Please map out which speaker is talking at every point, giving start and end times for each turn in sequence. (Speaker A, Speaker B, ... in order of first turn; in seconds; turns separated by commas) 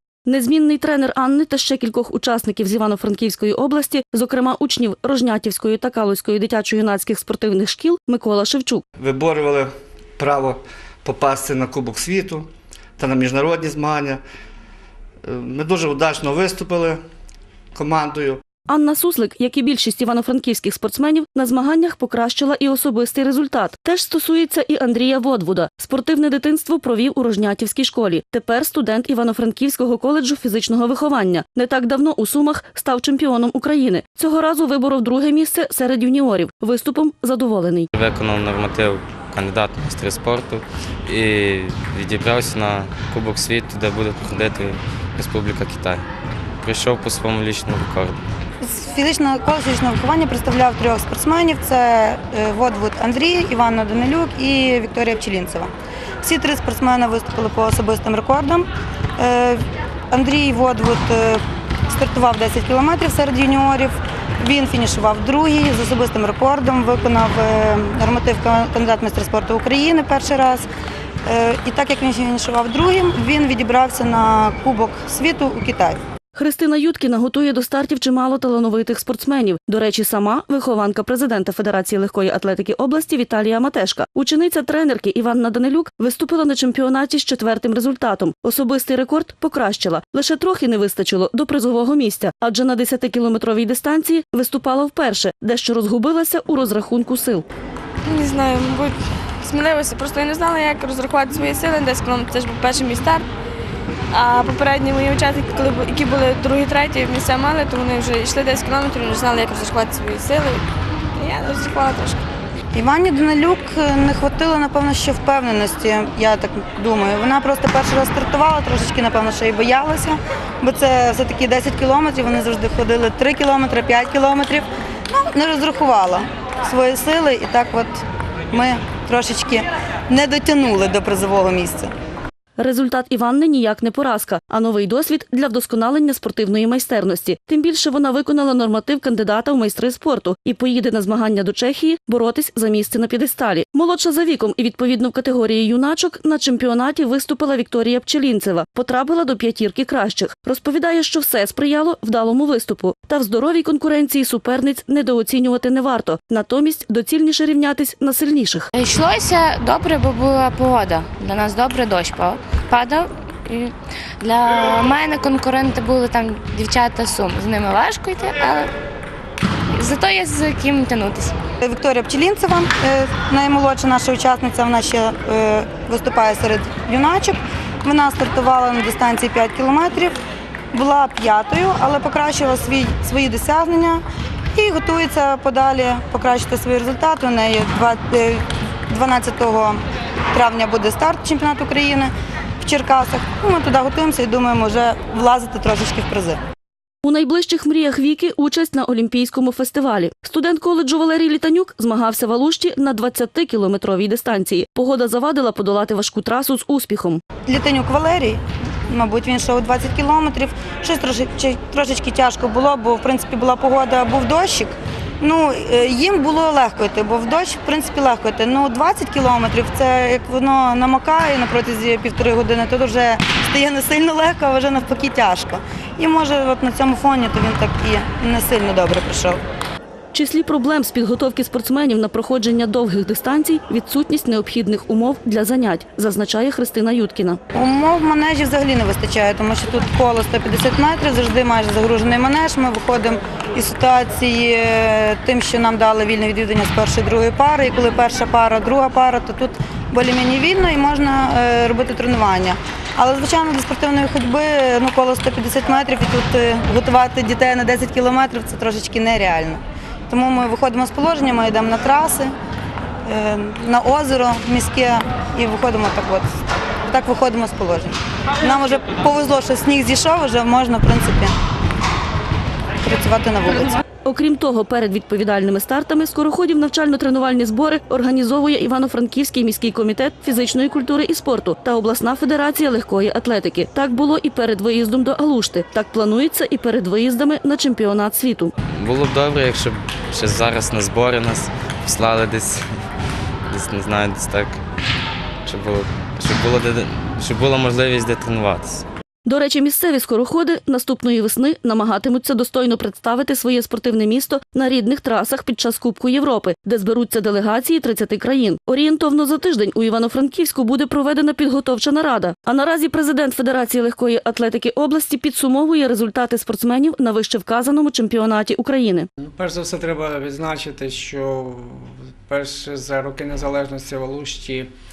Speaker A: 0.3-8.8, Speaker B: 9.0-14.2, Speaker B: 15.2-17.0, Speaker B: 17.7-18.4, Speaker A: 18.7-37.9, Speaker C: 37.9-46.1, Speaker C: 46.6-48.2, Speaker D: 48.6-70.7, Speaker D: 71.2-76.0, Speaker A: 76.3-97.5, Speaker E: 98.0-103.2, Speaker E: 104.1-110.6, Speaker E: 111.1-112.2, Speaker D: 112.7-131.9, Speaker A: 132.6-158.7, Speaker F: 158.7-168.7, Speaker F: 169.7-171.3, Speaker D: 171.6-180.2, Speaker D: 180.7-189.8, Speaker D: 190.3-196.4, Speaker A: 197.0-207.2, Speaker D: 207.5-229.4, Speaker A: 230.1-237.4, Speaker D: 237.5-262.3, Speaker D: 263.1-266.3, Speaker D: 266.9-271.3, Speaker D: 272.8-273.8, Speaker A: 274.0-288.5, Speaker C: 288.7-292.6, Speaker C: 293.5-294.6, Speaker C: 295.4-298.8, Speaker A: 299.2-319.1, Speaker G: 319.2-324.7